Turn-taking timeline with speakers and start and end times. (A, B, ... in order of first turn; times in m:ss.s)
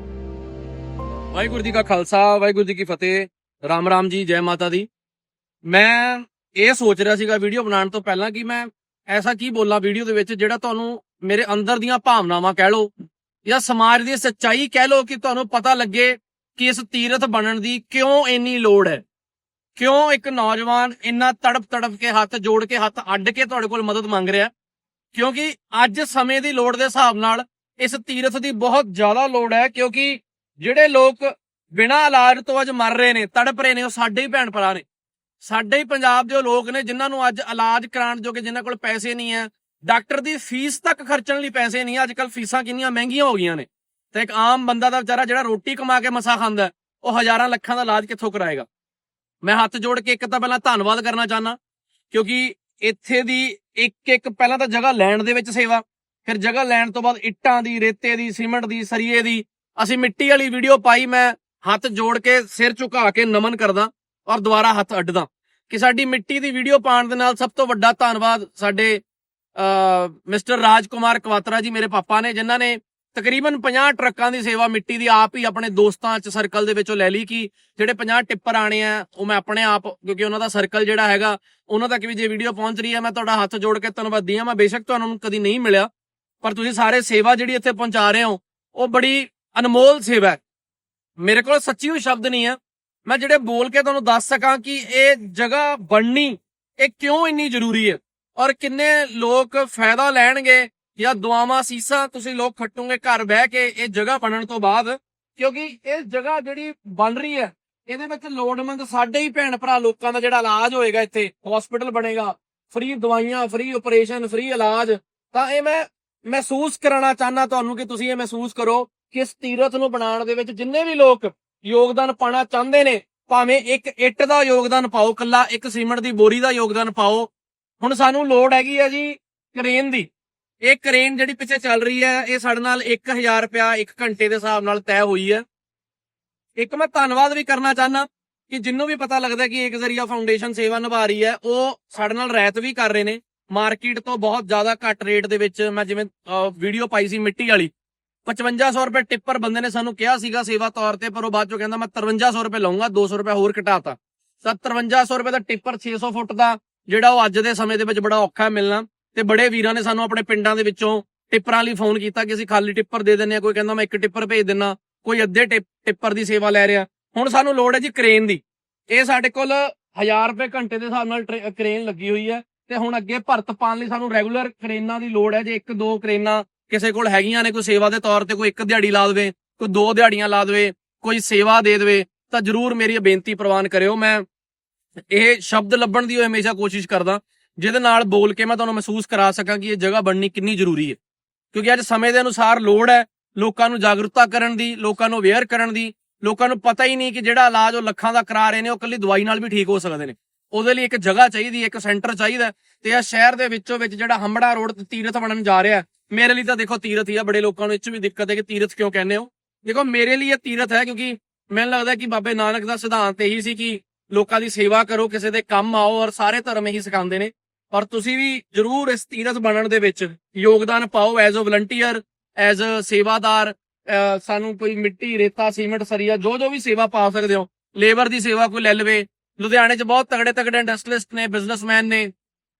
0:01.3-0:04.9 A
0:05.7-0:12.9 A
0:13.4-0:19.0 A
0:19.8-0:24.5 A
0:25.1-0:34.8 A
0:35.4-0:48.7 A
0:49.4-0:51.6 A
0:52.1-1:09.0 A
1:09.6-1:25.9 A
1:26.4-1:30.4 A
1:31.2-2:07.3 A
2:07.8-2:10.1 A
2:10.6-2:15.4 A
2:16.6-2:27.7 A
2:28.3-3:04.2 A
3:05.1-3:11.0 A
3:11.5-3:52.1 A